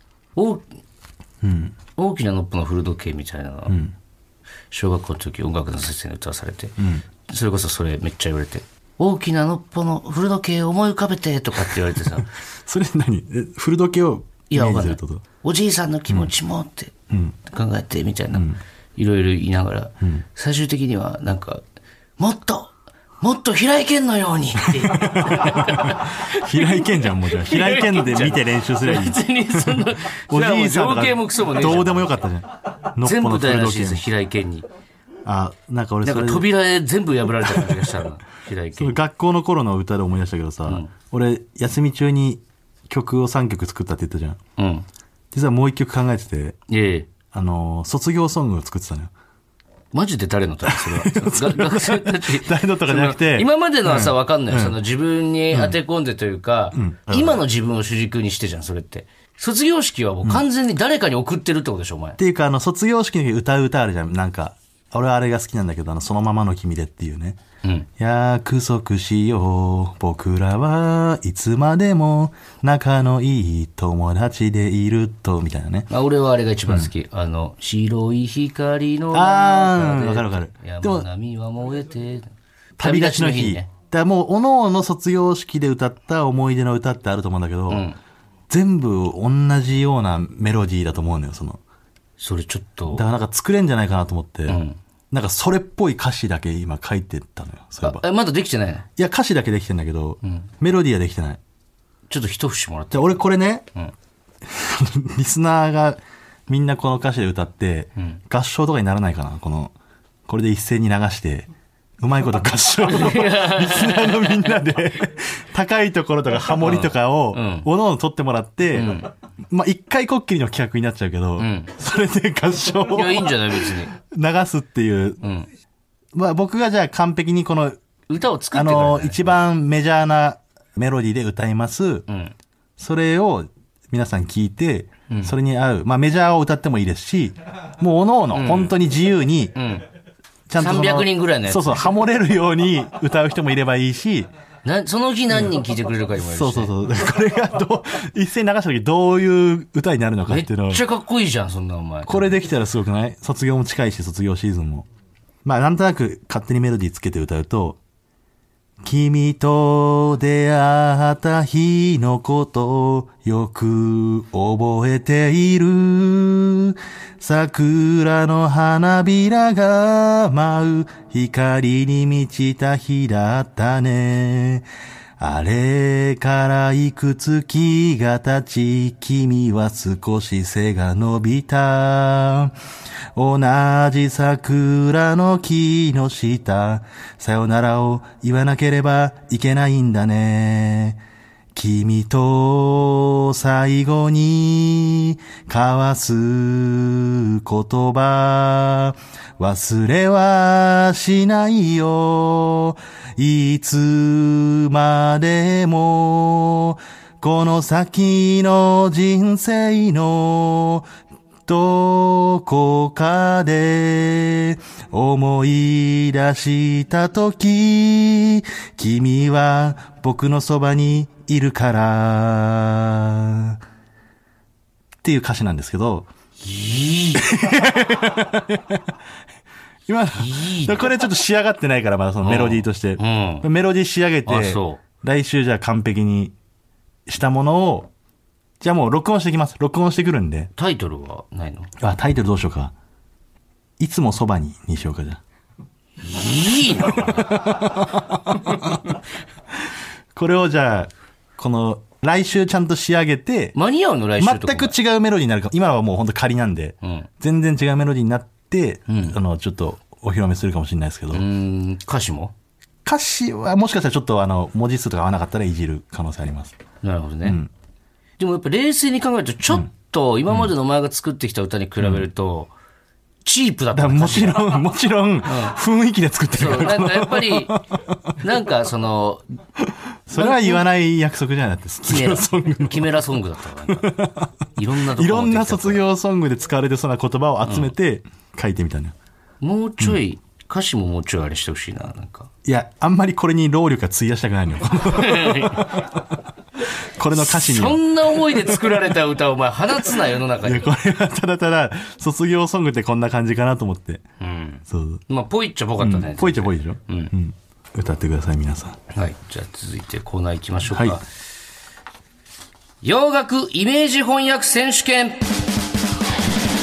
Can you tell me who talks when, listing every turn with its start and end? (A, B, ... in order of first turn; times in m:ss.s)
0:00.4-0:00.7 A
0:01.4-0:01.8 B
0:02.0-0:03.8 A
0:03.7-0:03.9 B
0:04.7-0:12.3 A
0:06.8-0:07.0 B
0:12.2-0:15.2 B
0:14.5-0:16.9 A
0:17.1-0:17.4 B
0:17.5-0:21.6 A
0:18.3-0:18.6 B
0:22.2-0:32.2 A
0:24.6-0:34.1 B
0:33.0-0:34.7 A
0:35.2-0:36.5 B
0:36.0-0:39.0 A
0:37.4-0:37.9 B
0:38.8-0:44.4 B
0:40.7-0:40.9 A
0:44.6-0:44.9 A
0:45.3-0:46.6 B
0:46.7-0:47.1 A
0:47.3-0:49.1 B
0:49.9-1:02.2 A
0:50.7-0:54.8 B
0:56.7-0:57.4 B
1:02.2-1:07.4 B
1:08.0-1:15.9 B
1:15.9-1:23.7 A
1:19.1-1:21.1 B
1:22.8-1:27.9 B
1:27.7-1:28.0 A
1:28.5-1:31.6 B
1:32.2-1:33.0 A
1:32.9-1:38.0 B
1:34.5-1:34.8 A
1:37.8-1:38.9 A
1:39.0-1:41.4 B
1:42.1-1:43.2 A
1:42.9-1:43.7 B
1:44.4-1:49.8 B
1:50.3-2:05.2 B
1:52.9-1:54.6 A
1:56.6-1:57.7 A
1:58.7-1:59.1 A
2:01.4-2:01.7 A
2:02.8-2:04.0 A
2:05.2-2:05.5 A
2:06.1-2:07.8 B
2:08.1-2:09.4 A
2:08.5-2:12.1 B
2:12.1-2:12.3 A
2:12.8-2:19.6 B
2:15.1-2:15.3 A
2:18.3-2:18.8 A
2:19.6-2:19.9 A
2:20.5-2:24.3 B
2:20.6-2:21.8 A
2:24.6-2:26.7 A
2:26.2-2:30.8 B
2:30.3-2:32.4 A
2:32.1-2:34.9 B
2:35.4-2:37.8 B
2:38.8-2:54.7 B
2:55.2-3:02.5 B
3:03.2-3:11.0 B
3:11.5-3:30.9 B
3:31.5-3:43.6 B
3:45.0-3:46.1 B
3:46.4-3:47.3 A
3:47.2-3:48.8 B
3:49.9-3:56.3 B
3:50.1-3:50.9 A
3:52.2-3:53.5 A
3:54.2-3:54.8 A
3:57.1-3:57.9 B
3:58.6-4:00.5 B
4:00.6-4:01.7 A
4:01.8-4:02.7 B
4:03.8-4:05.2 B
4:06.0-4:07.4 A
4:07.0-4:08.9 B
4:10.1-4:13.6 B
4:13.6-4:14.8 A
4:14.2-4:21.3 B
4:16.8-4:17.1 A
4:18.9-4:19.2 A
4:21.1-4:22.3 A
4:22.8-4:26.6 B
4:26.8-4:27.4 A
4:27.2-4:27.5 B
4:28.2-4:32.5 A
4:33.2-4:34.6 A
4:33.7-4:38.1 B
4:35.3-4:35.6 A
4:36.3-4:37.6 A
4:38.2-4:39.2 A
4:39.6-4:43.0 B
4:40.1-4:40.6 A
4:41.9-4:44.0 A
4:43.7-4:49.0 B
4:44.6-4:45.8 A
4:47.4-4:47.7 A
4:49.4-4:52.3 A
4:52.4-4:56.0 B
4:54.9-4:55.7 A
4:57.0-4:58.8 B
4:57.2-5:00.7 A
5:00.0-5:04.0 B
5:04.2-5:07.1 A
5:04.7-5:05.0 B
5:05.8-5:08.8 B
5:08.9-5:11.0 A
5:10.7-5:11.0 B
5:12.8-5:15.2 A